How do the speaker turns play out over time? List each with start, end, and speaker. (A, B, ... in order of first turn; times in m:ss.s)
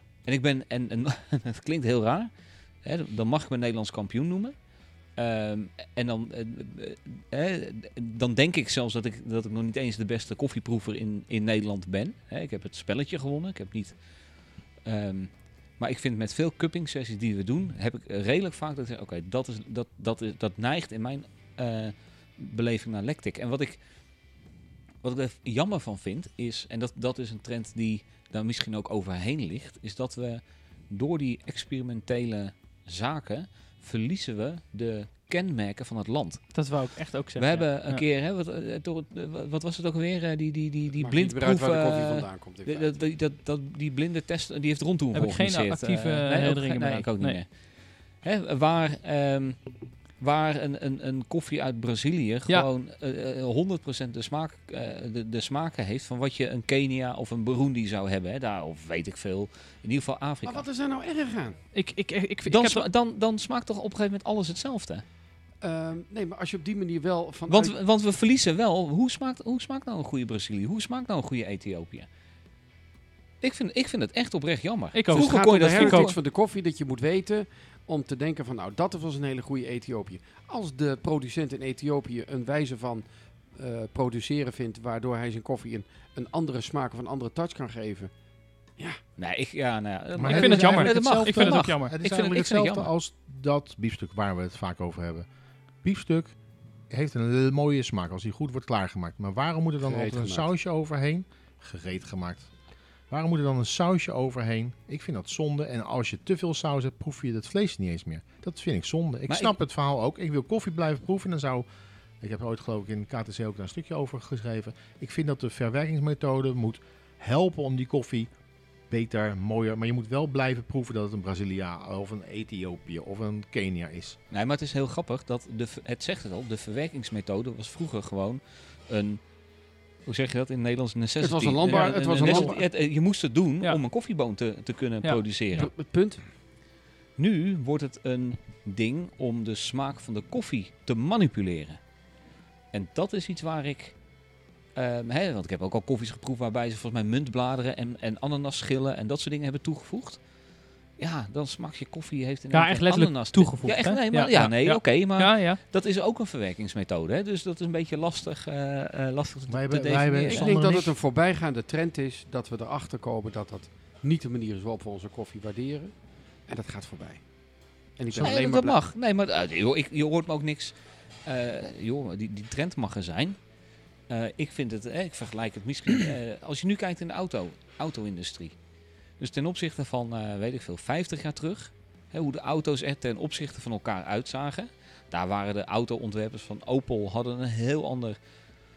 0:00.2-0:24.0 A
0:25.0-1:00.6 A
0:36.5-0:38.0 B
0:41.0-0:43.0 C
0:45.1-0:47.4 B
1:00.4-1:01.6 C
1:01.7-1:02.9 B
1:02.4-1:05.0 A
1:05.6-1:07.8 C
1:07.5-1:12.1 A
1:13.4-1:16.1 A
1:14.9-1:16.1 B
1:15.1-1:28.1 C
1:29.2-1:32.9 A
1:30.1-1:35.3 D
1:30.3-1:31.9 B
1:35.8-1:36.4 D
1:36.9-1:42.6 D
1:39.8-1:40.5 C
1:43.1-1:51.6 D
1:49.3-1:49.5 A
1:52.2-1:58.3 D
1:58.9-2:04.2 D
2:04.3-2:09.4 A
2:10.0-2:15.7 A
2:11.2-2:12.6 C
2:11.6-2:12.6 B
2:15.5-2:16.2 C
2:17.2-2:21.8 A
2:22.7-2:24.0 A
2:24.8-2:30.3 A
2:31.0-2:40.6 A
2:32.5-2:35.6 B
2:39.5-2:40.9 D
2:40.3-2:48.8 C
2:48.2-2:53.5 A
2:54.1-2:58.6 A
2:59.2-3:08.2 A